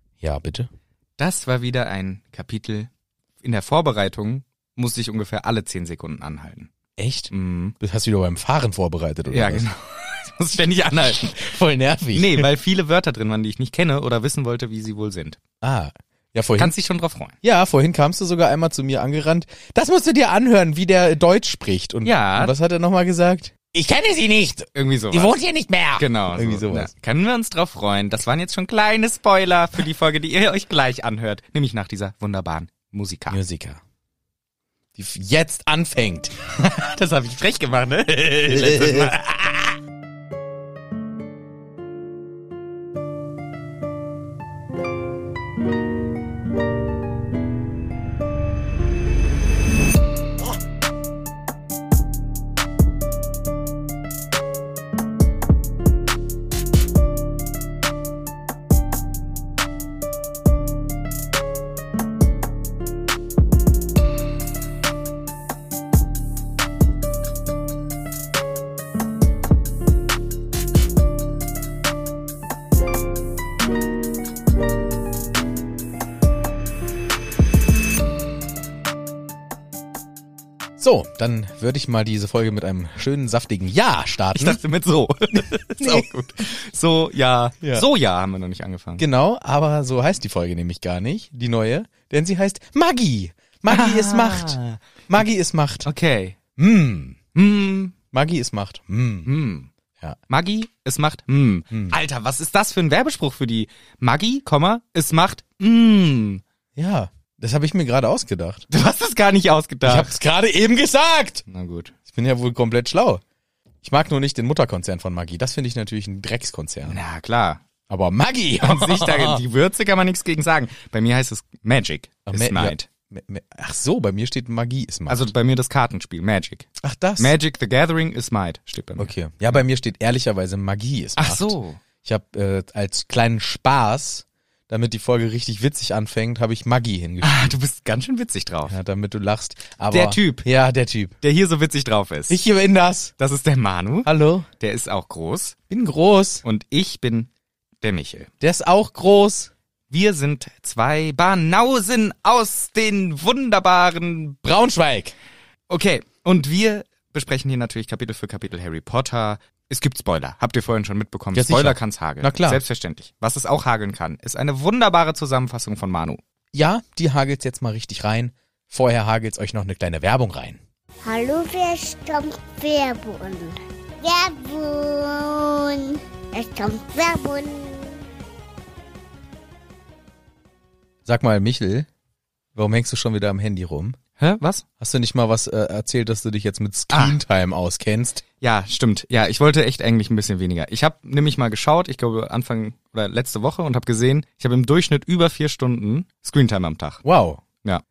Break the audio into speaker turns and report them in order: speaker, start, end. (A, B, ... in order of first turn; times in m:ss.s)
0:00.2-0:00.7 A
0:01.2-0:02.9 B
0:03.4-0:06.7 B
0:07.0-0:09.6 A
0:07.3-0:07.7 B
0:09.3-0:11.5 B
0:11.2-0:12.5 A
0:12.1-0:15.4 B
0:15.6-0:16.7 A
0:16.6-0:17.3 B
0:17.4-0:26.9 A
0:22.0-0:22.5 B
0:24.7-0:25.4 B
0:26.0-0:33.4 B
0:33.3-0:33.8 A
0:35.0-0:36.4 A
0:36.6-0:39.8 B
0:38.5-0:39.1 A
1:20.8-1:24.6 A
1:24.3-1:29.0 B
1:25.4-1:26.1 A
1:29.0-1:34.6 A
1:33.7-1:34.8 B
1:35.1-1:35.9 A
1:35.8-1:36.4 B
1:36.6-1:37.2 A
1:37.3-1:37.9 B
1:38.1-1:39.3 A
1:39.2-1:39.7 B
1:40.3-1:46.4 B
1:41.7-1:42.0 A
1:46.7-1:48.6 A
1:48.7-1:50.1 B
1:49.8-1:51.4 A
1:51.5-1:51.9 B
1:52.1-1:53.2 A
1:53.8-1:57.0 A
1:56.8-1:57.6 B
1:57.9-1:59.4 A
1:58.6-2:02.9 B
2:02.3-2:05.3 A
2:05.1-2:06.7 B
2:06.8-2:07.3 A
2:07.2-2:09.1 B
2:09.0-2:17.5 A
2:11.2-2:11.8 B
2:17.2-2:18.8 B
2:18.7-2:21.2 A
2:19.9-2:20.5 B
2:21.2-2:22.4 B
2:22.3-2:23.1 A
2:23.2-2:25.6 B
2:24.0-2:24.5 A
2:25.7-2:26.4 A
2:26.4-2:27.3 B
2:27.8-2:28.3 B
2:28.4-2:29.5 A
2:29.9-2:34.4 B
2:34.4-2:35.1 A
2:35.7-2:46.2 B
2:41.3-2:42.6 A
2:46.5-2:50.6 A
2:51.0-2:58.0 C
3:01.0-3:01.9 A
3:02.5-3:04.0 A
3:04.2-3:04.6 B
3:04.8-3:08.2 A
3:06.9-3:07.2 B
3:08.4-3:17.0 B
3:17.0-3:17.4 A